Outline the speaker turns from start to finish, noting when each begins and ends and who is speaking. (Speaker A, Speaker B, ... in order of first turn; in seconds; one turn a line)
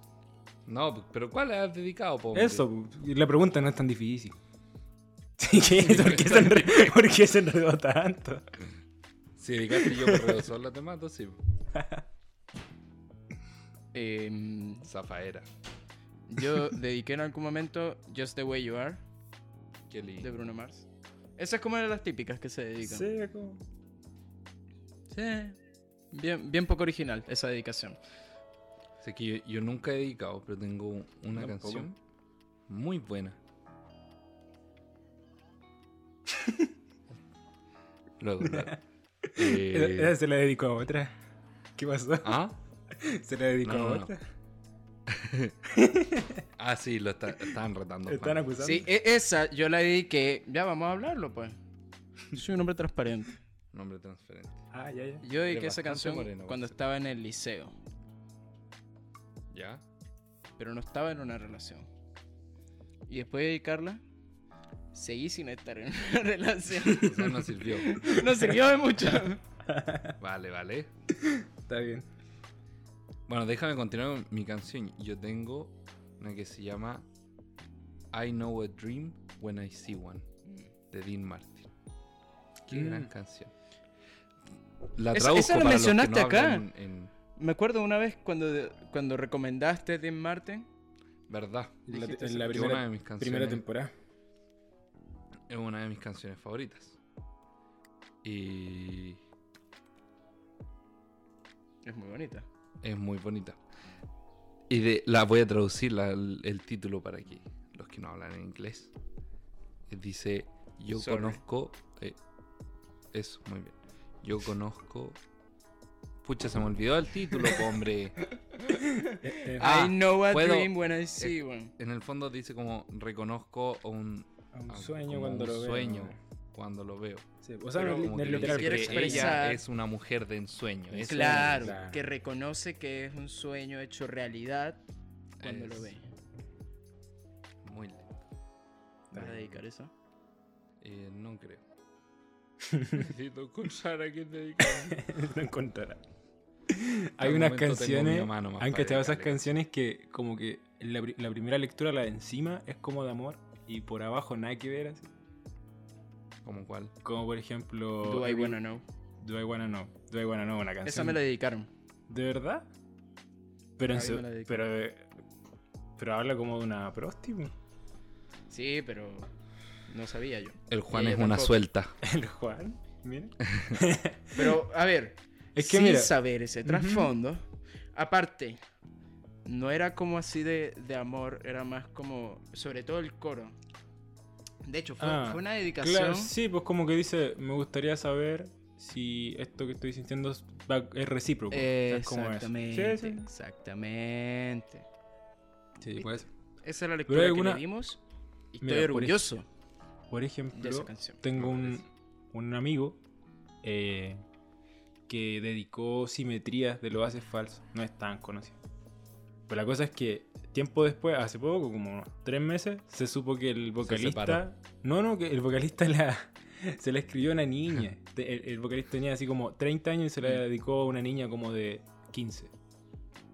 Speaker A: 0.7-2.6
Speaker B: 2.3-4.3
Speaker B: 5.4-8.4
Speaker A: 5.7-6.9
Speaker A: 9.3-11.4
Speaker B: 9.7-10.5
Speaker B: 11.7-12.0
Speaker C: 13.9-14.9
Speaker A: 14.8-15.5
Speaker C: 16.3-19.0
Speaker A: 19.9-20.4
Speaker C: 20.2-23.1
Speaker B: 22.8-23.6
Speaker C: 25.1-25.6
Speaker C: 26.1-28.0
Speaker A: 29.0-32.0
Speaker B: 31.3-31.9
Speaker A: 32.7-33.4
Speaker A: 38.2-38.8
Speaker B: 38.4-41.1
Speaker A: 39.4-40.1
Speaker B: 41.8-44.2
Speaker A: 42.2-42.6
Speaker A: 43.6-44.1
Speaker A: 45.1-45.5
Speaker B: 45.7-46.4
Speaker A: 46.6-48.5
Speaker B: 48.1-48.9
Speaker C: 48.6-51.6
Speaker C: 52.3-53.4
Speaker A: 53.7-54.6
Speaker B: 54.7-55.2
Speaker C: 55.2-57.8
Speaker A: 55.4-56.8
Speaker A: 59.5-59.8
Speaker C: 60.6-61.9
Speaker C: 63.1-64.0
Speaker C: 64.9-69.4
Speaker A: 67.0-68.0
Speaker B: 69.7-70.2
Speaker A: 70.2-70.9
Speaker B: 71.1-72.1
Speaker A: 73.3-77.1
Speaker A: 78.1-80.2
Speaker A: 80.9-81.7
Speaker A: 82.6-83.5
Speaker B: 82.7-83.1
Speaker A: 84.9-87.1
Speaker C: 85.1-86.6
Speaker C: 87.3-90.7
Speaker A: 91.3-91.8
Speaker B: 91.9-93.9
Speaker C: 91.9-92.7
Speaker A: 92.5-93.6
Speaker A: 95.5-97.0
Speaker A: 98.2-99.2
Speaker C: 101.8-102.5
Speaker A: 102.8-103.6
Speaker A: 104.7-108.9
Speaker A: 109.9-112.2
Speaker C: 110.9-111.4
Speaker A: 113.1-115.2
Speaker A: 116.2-118.2
Speaker C: 118.5-121.7
Speaker B: 119.2-119.7
Speaker A: 119.6-127.2
Speaker B: 124.5-126.2
Speaker B: 127.4-129.4
Speaker C: 127.8-129.6
Speaker A: 127.8-131.8
Speaker C: 130.9-134.8
Speaker B: 131.0-132.0
Speaker A: 135.4-135.9
Speaker C: 135.4-136.1
Speaker A: 137.6-138.3
Speaker B: 139.1-139.6
Speaker C: 139.1-139.9
Speaker A: 140.8-141.6
Speaker B: 142.6-143.1
Speaker A: 142.9-145.0
Speaker B: 144.7-146.0
Speaker B: 146.7-155.1
Speaker A: 147.2-149.5
Speaker A: 156.4-156.9
Speaker B: 157.0-158.6
Speaker C: 158.0-158.8
Speaker B: 159.2-161.2
Speaker C: 160.8-161.7
Speaker B: 162.1-162.7
Speaker B: 163.8-165.1
Speaker C: 163.8-164.7
Speaker B: 166.0-167.5
Speaker C: 168.5-169.3
Speaker C: 169.9-171.6
Speaker A: 170.7-171.9
Speaker B: 172.0-174.6
Speaker A: 173.4-173.8
Speaker C: 174.3-178.6
Speaker B: 175.6-177.1
Speaker C: 179.4-183.6
Speaker C: 184.6-186.3
Speaker B: 185.0-193.3
Speaker C: 191.5-194.8
Speaker B: 195.8-196.3
Speaker C: 195.9-198.0
Speaker B: 197.1-197.6
Speaker C: 198.5-199.4
Speaker B: 198.6-199.3
Speaker B: 200.1-203.0
Speaker C: 200.5-201.2
Speaker A: 201.3-201.8
Speaker B: 203.6-204.2
Speaker B: 205.1-208.6
Speaker B: 209.5-222.5
Speaker A: 213.8-214.4